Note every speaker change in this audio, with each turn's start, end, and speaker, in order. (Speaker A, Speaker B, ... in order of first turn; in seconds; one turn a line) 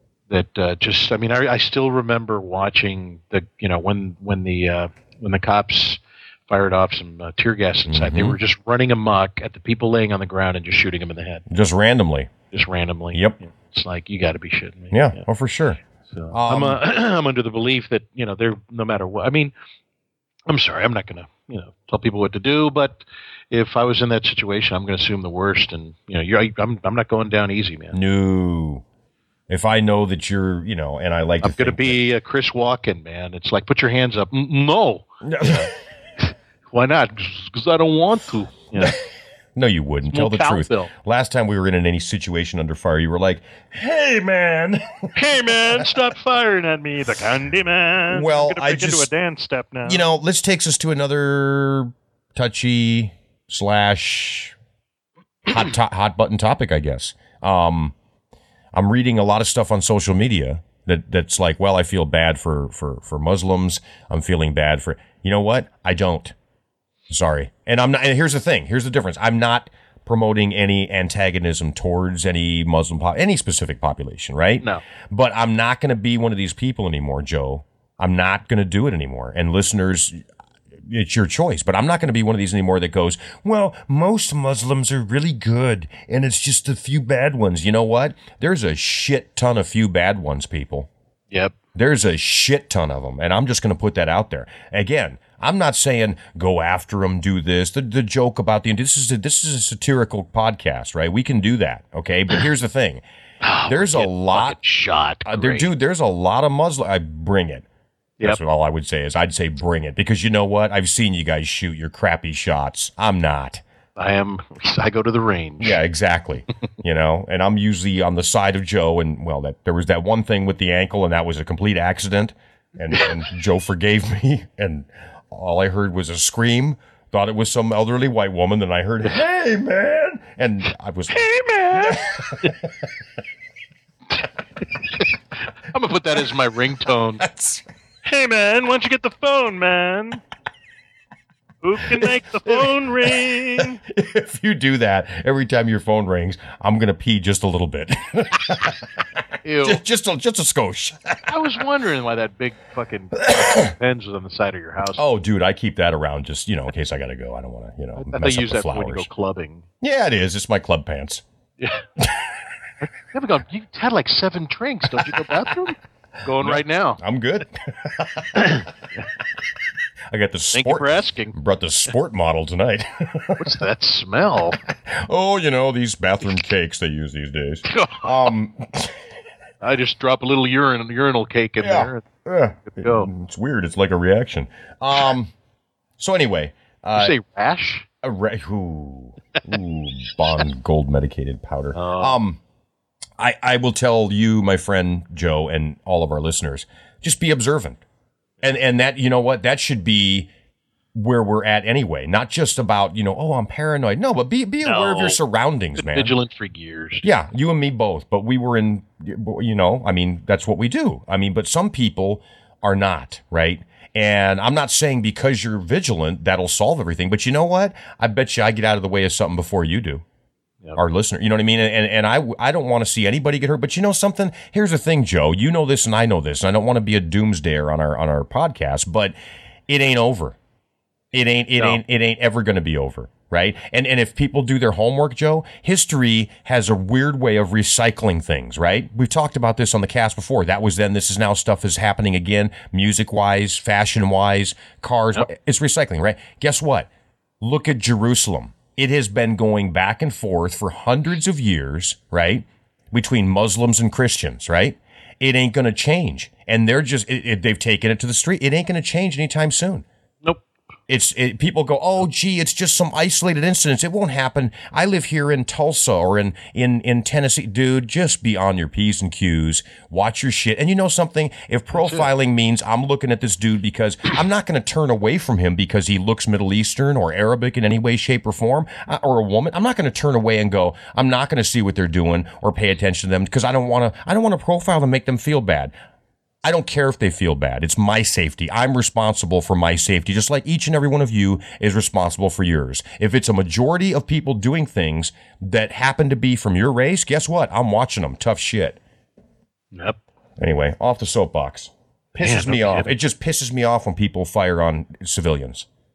Speaker A: 0.3-11.4
Speaker B: 7.9-8.4
Speaker B: 11.5-12.3
Speaker A: 12.5-15.2
Speaker B: 13.1-13.4
Speaker B: 14.9-15.8
Speaker A: 16.1-19.5
Speaker B: 16.3-16.8
Speaker A: 20.5-28.0
Speaker B: 27.9-28.8
Speaker B: 29.5-32.0
Speaker A: 31.4-39.0
Speaker B: 35.2-35.7
Speaker B: 39.5-45.2
Speaker A: 40.1-40.9
Speaker C: 45.1-50.0
Speaker B: 48.1-49.1
Speaker B: 49.8-54.5
Speaker B: 55.5-57.9
Speaker B: 58.7-66.3
Speaker B: 67.1-80.2
Speaker B: 80.8-90.9
Speaker B: 91.7-103.0
Speaker A: 103.4-105.7
Speaker B: 103.7-104.5
Speaker B: 105.2-107.7
Speaker B: 108.2-113.6
Speaker A: 114.0-115.8
Speaker B: 115.6-132.7
Speaker C: 131.1-132.1
Speaker A: 135.7-137.2
Speaker B: 137.2-137.6
Speaker C: 138.0-140.2
Speaker C: 141.6-143.8
Speaker B: 142.0-149.0
Speaker A: 149.4-149.8
Speaker B: 149.6-151.4
Speaker A: 151.3-155.0
Speaker B: 153.2-153.7
Speaker B: 154.9-159.1
Speaker A: 157.9-159.7
Speaker B: 159.8-161.2
Speaker A: 162.8-167.0
Speaker B: 166.4-168.6
Speaker A: 168.3-168.7
Speaker B: 170.1-173.5
Speaker A: 170.5-171.3
Speaker A: 173.4-174.6
Speaker B: 174.9-179.0
Speaker A: 177.7-178.1
Speaker A: 179.6-182.1
Speaker B: 181.6-185.3
Speaker A: 182.7-183.1
Speaker B: 186.0-187.2
Speaker A: 186.9-187.8
Speaker B: 188.0-192.4
Speaker A: 191.7-192.2
Speaker B: 193.2-197.8
Speaker B: 198.4-200.3
Speaker B: 200.9-206.1
Speaker A: 204.6-205.2
Speaker A: 205.8-207.1
Speaker B: 207.0-220.0
Speaker B: 220.8-229.1
Speaker B: 229.7-230.4
Speaker B: 231.1-246.9
Speaker B: 247.4-259.9
Speaker B: 260.9-285.7
Speaker A: 271.8-272.1
Speaker B: 286.4-298.8
Speaker A: 299.7-300.0
Speaker B: 300.4-305.7
Speaker A: 302.2-302.9